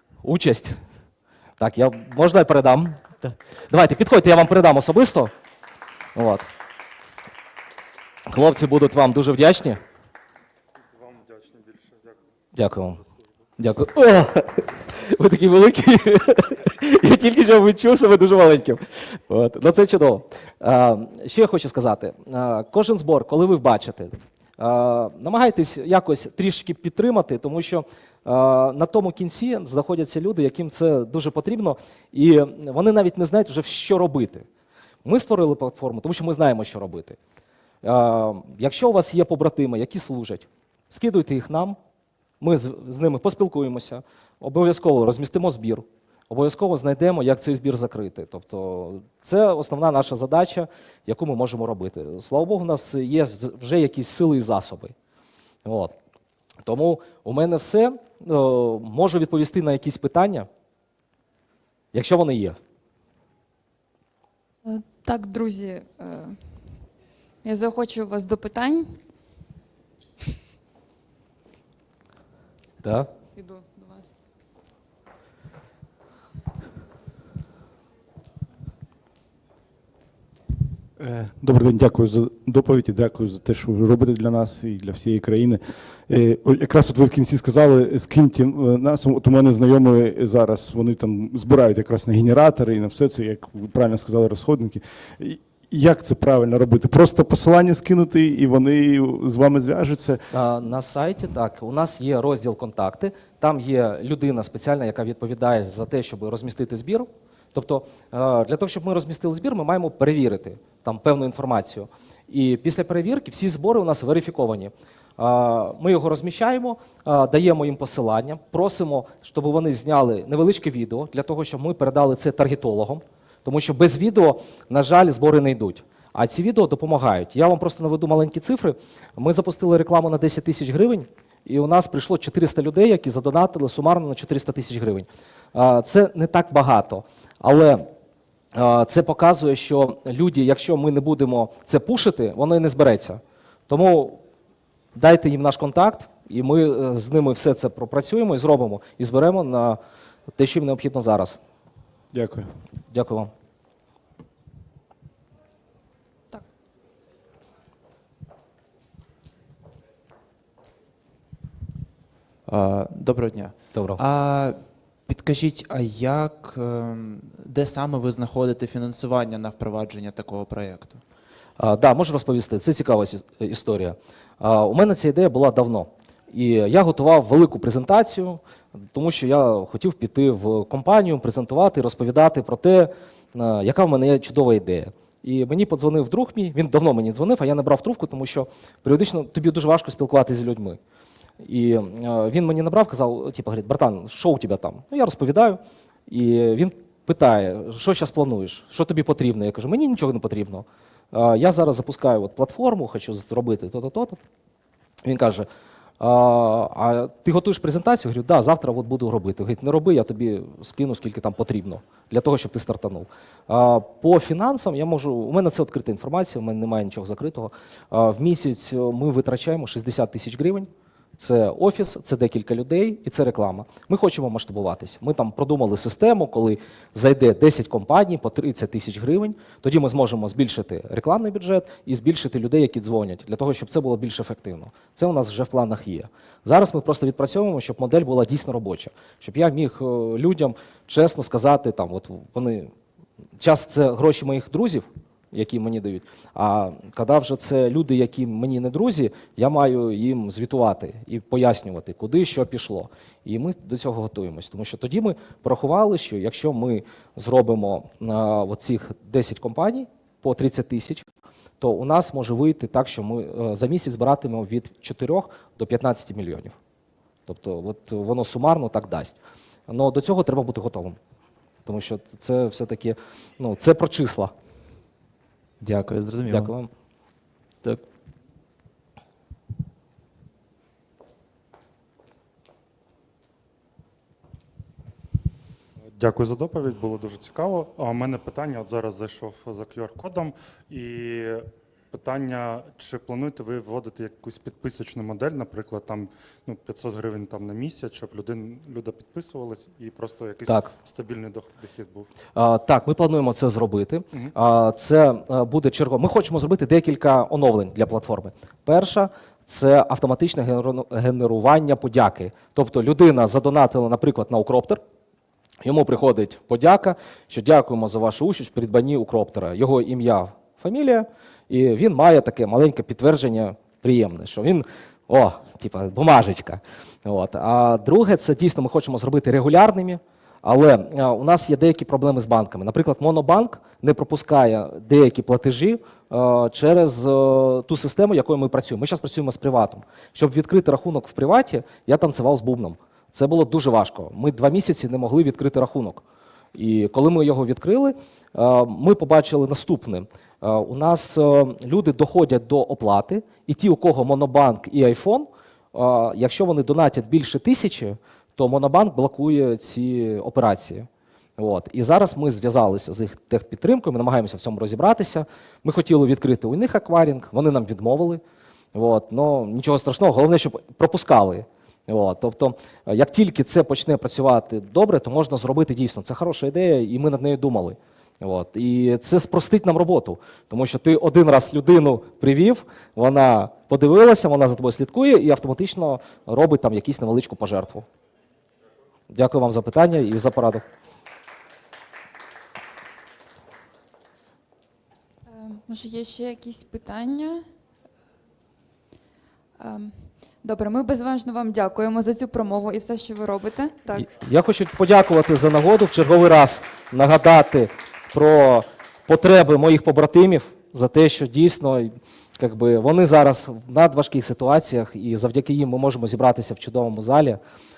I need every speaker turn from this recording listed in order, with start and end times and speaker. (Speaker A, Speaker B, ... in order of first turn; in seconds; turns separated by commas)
Speaker A: 0.2-0.8, Speaker A: 1.6-5.3, Speaker A: 6.1-6.5, Speaker A: 8.3-9.8, Speaker B: 10.9-12.2, Speaker A: 12.5-13.0, Speaker A: 13.6-34.5, Speaker A: 35.0-37.2, Speaker A: 37.8-41.8, Speaker A: 42.4-54.9, Speaker A: 55.6-55.9, Speaker A: 56.6-60.5, Speaker A: 61.9-62.6, Speaker C: 64.6-66.8, Speaker C: 67.4-69.0, Speaker A: 72.8-73.1, Speaker C: 73.3-74.1, Speaker D: 81.0-100.2, Speaker A: 100.3-137.9, Speaker A: 138.5-144.2, Speaker A: 144.9-149.8, Speaker A: 150.4-151.4, Speaker D: 152.1-152.5, Speaker A: 152.9-153.3, Speaker E: 162.4-171.0, Speaker A: 163.7-164.0, Speaker A: 171.6-178.4, Speaker A: 178.9-190.8, Speaker A: 191.4-204.2, Speaker A: 205.0-205.5, Speaker A: 206.0-242.7, Speaker A: 243.4-261.1, Speaker A: 261.6-266.6, Speaker A: 267.3-271.0, Speaker A: 271.6-274.3, Speaker E: 275.6-276.5, Speaker A: 276.2-276.7, Speaker B: 285.9-302.1, Speaker A: 300.4-300.7, Speaker A: 302.3-314.8, Speaker A: 315.6-346.0, Speaker A: 346.5-368.2, Speaker A: 368.7-387.9, Speaker A: 389.1-390.6, Speaker C: 395.2-397.5, Speaker C: 399.6-404.1, Speaker A: 403.9-417.4